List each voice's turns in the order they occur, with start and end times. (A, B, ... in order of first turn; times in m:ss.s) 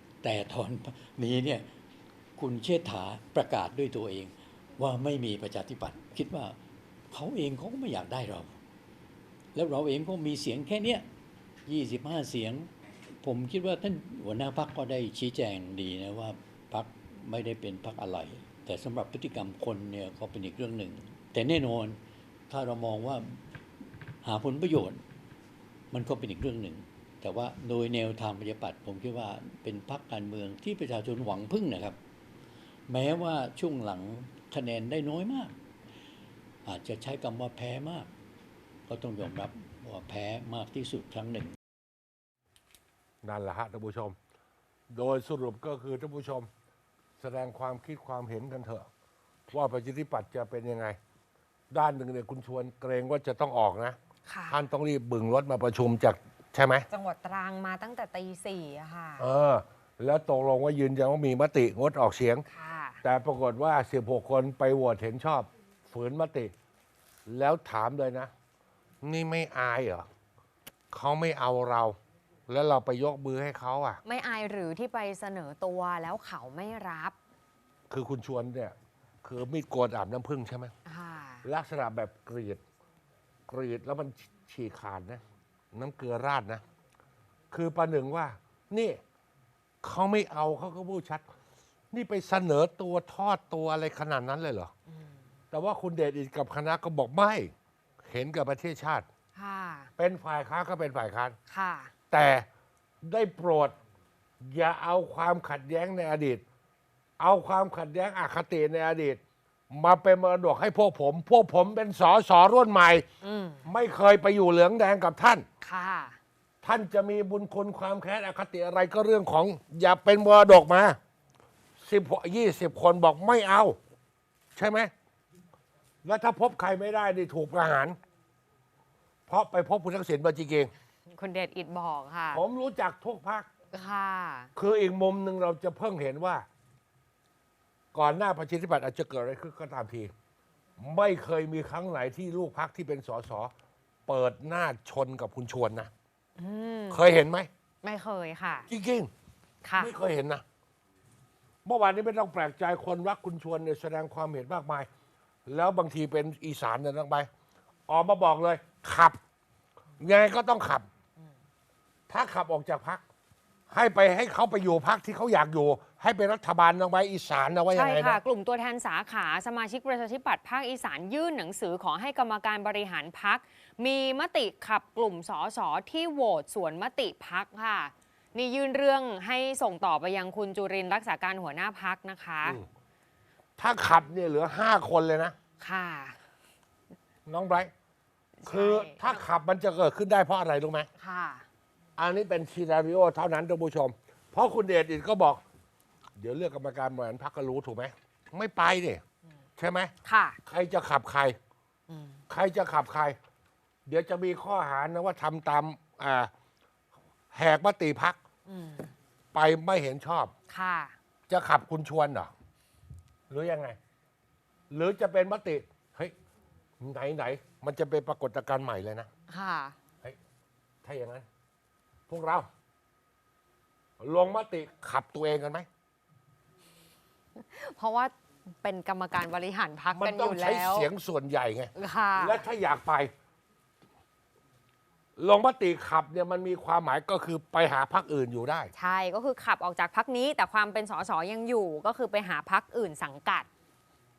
0:00.2-0:01.7 A
0:02.4-0:06.6 A
0:07.1-0:08.6 A
0:09.5-0:11.1 A
0:11.7-0:12.7 A
0:13.2-0:23.5 A
0:24.2-0:25.0 A
0:25.9-0:32.0 A
0:32.9-0:35.6 A
0:36.6-0:38.1 A
0:38.9-0:41.6 A
0:43.2-0:44.2 B
0:44.9-0:46.5 B
0:47.2-0:48.9 B
0:49.5-0:51.0 B
0:51.7-0:54.0 B
0:54.2-0:54.6 C
0:54.5-0:56.8 B
0:56.9-0:59.3 C
0:59.2-1:02.5 B
1:02.5-1:03.0 C
1:03.0-1:06.5 B
1:07.2-1:08.3 B
1:09.0-1:10.0 B
1:10.9-1:12.0 B
1:12.5-1:14.0 B
1:14.0-1:17.2 C
1:17.9-1:20.7 B
1:20.8-1:21.4 C
1:21.4-1:22.6 B
1:23.5-1:25.2 B
1:25.7-1:26.6 B
1:27.5-1:29.0 B
1:29.8-1:31.2 B
1:31.9-1:34.7 B
1:34.9-1:35.2 C
1:35.5-1:39.1 B
1:39.3-1:39.9 C
1:40.0-1:41.4 B
1:41.5-1:41.9 C
1:42.1-1:42.4 B
1:43.0-1:43.7 B
1:44.4-1:46.4 B
1:47.2-1:53.0 B
1:53.2-1:53.6 C
1:53.6-1:55.4 B
1:55.6-1:56.2 C
1:56.6-2:01.0 B
2:01.8-2:03.8 B
2:04.6-2:04.9 B
2:06.0-2:08.0 B
2:09.3-2:10.7 B
2:11.1-2:12.4 C
2:12.3-2:13.5 B
2:13.7-2:14.5 C
2:14.6-2:16.5 B
2:17.9-2:20.1 B
2:20.8-2:23.5 B
2:24.1-2:25.9 B
2:26.4-2:27.0 C
2:26.9-2:27.5 B
2:27.8-2:28.7 C
2:28.7-2:29.1 B
2:29.6-2:29.9 C
2:29.8-2:30.4 B
2:31.6-2:34.9 B
2:35.5-2:37.3 B
2:37.9-2:39.2 B
2:40.0-2:40.8 B
2:42.1-2:43.0 B
2:43.7-2:48.2 B
2:47.7-3:02.6 C
3:03.6-3:05.3 B
3:05.6-3:06.2 C
3:07.2-3:07.7 B
3:08.4-3:09.2 C
3:08.5-3:10.9 B
3:11.0-3:11.5 C
3:12.0-3:15.4 B
3:16.2-3:19.0 B
3:19.6-3:19.9 B
3:20.0-3:20.4 C
3:20.5-3:21.4 B
3:21.9-3:22.2 C
3:22.3-3:23.2 B
3:23.8-3:26.3 B
3:27.3-3:28.2 B
3:28.5-3:28.9 C
3:29.3-3:30.3 B
3:30.5-3:30.9 C
3:31.3-3:32.3 B
3:33.3-3:33.8 B
3:34.7-3:36.1 B
3:36.8-3:39.1 B
3:39.3-3:39.8 C
3:40.8-3:41.2 B
3:42.1-3:42.5 B
3:44.0-3:45.7 B
3:47.4-3:50.9 C
3:49.9-3:53.1 B
3:51.7-3:52.4 C
3:55.2-3:58.7 B
3:58.7-4:03.5 C